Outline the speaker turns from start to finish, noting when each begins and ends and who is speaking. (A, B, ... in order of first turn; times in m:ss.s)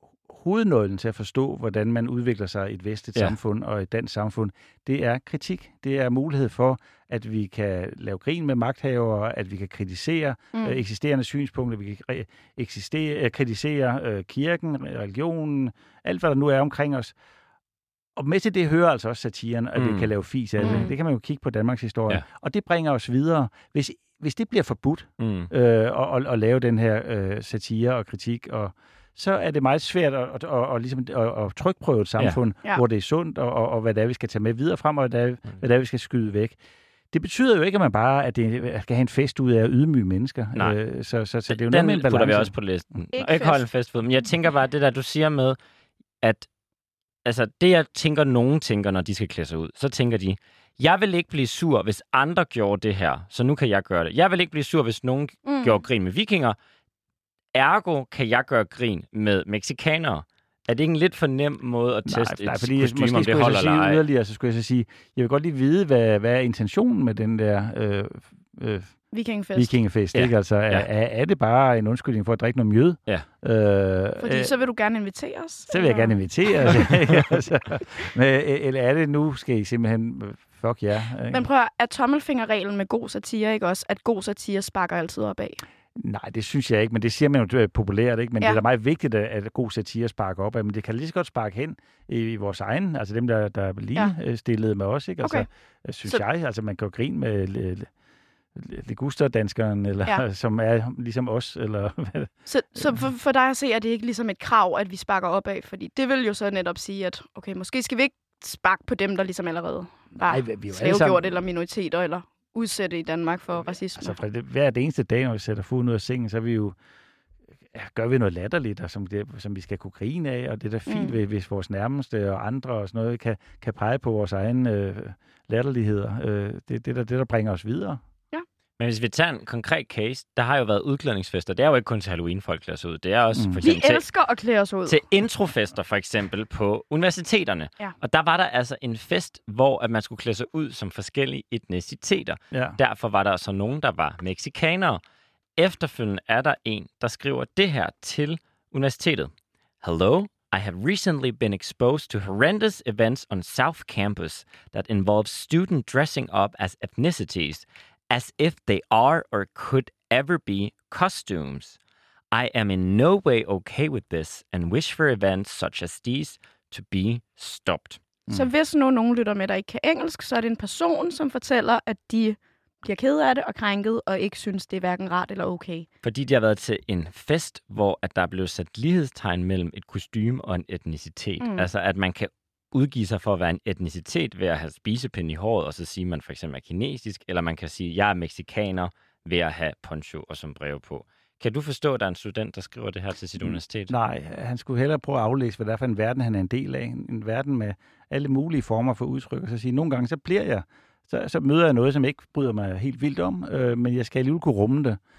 0:00.3-0:17.1 A
0:10.5-0:10.8 B
0:18.2-0:36.6 A
0:19.8-0:20.1 C
0:20.6-0:20.9 C
0:20.6-0:20.9 B
0:25.2-0:25.5 C
0:37.1-0:42.5 A
0:41.5-0:45.6 C
0:43.1-0:43.6 B
0:46.2-0:46.5 C
0:47.2-0:56.6 C
0:55.4-0:55.8 B
0:57.5-1:04.0 C
1:02.0-1:08.9 A
1:09.1-1:09.7 B
1:09.5-1:14.5 A
1:10.1-1:10.8 C
1:14.2-1:16.1 B
1:15.7-1:21.4 A
1:21.3-1:25.6 B
1:26.0-1:37.9 A
1:38.5-1:42.3 A
1:42.4-1:54.2 B
1:50.2-1:51.4 A
1:53.9-1:56.7 A
1:57.7-2:08.0 A
2:00.9-2:01.2 B
2:08.8-2:14.0 C
2:13.3-2:13.6 A
2:13.6-2:15.0 B
2:14.9-2:25.0 C
2:22.5-2:22.8 A
2:25.6-2:29.3 C
2:29.8-2:41.8 C
2:42.3-2:48.0 C
2:48.3-2:55.9 B
2:56.0-3:13.9 C
3:01.4-3:01.7 B
3:13.4-3:25.0 A